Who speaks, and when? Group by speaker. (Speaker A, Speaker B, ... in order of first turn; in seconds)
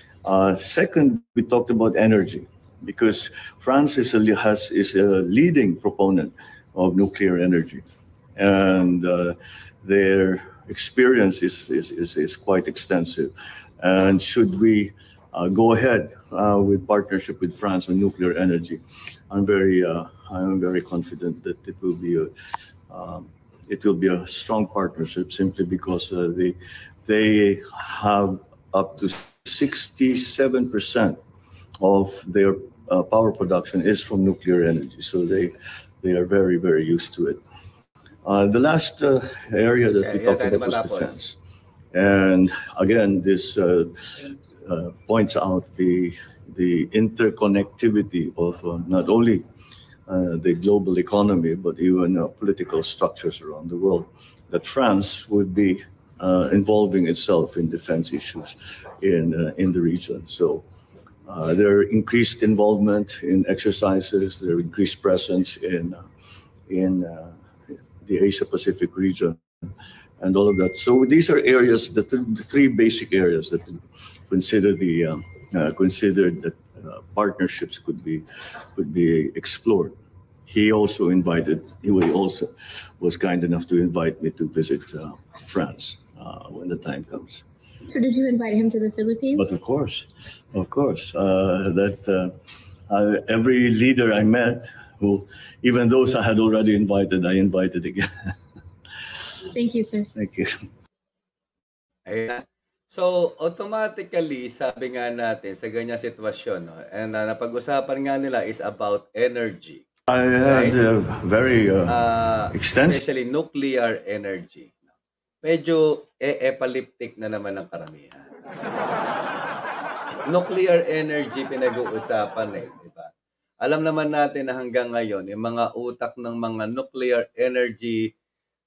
Speaker A: 0.2-22.3, 22.9-31.2, 31.8-37.4, 38.2-41.4, 41.9-49.4, 50.1-60.6, 61.2-66.0, 66.7-69.4, 70.2-87.4, 89.3-92.4, 92.9-98.4, 100.1-100.5, 110.1-113.0
Speaker B: 40.0-41.2, 102.0-109.8, 110.4-110.8, 111.9-114.8, 115.4-118.3, 120.3-123.1, 123.6-128.1
Speaker C: 87.9-89.5, 99.5-100.1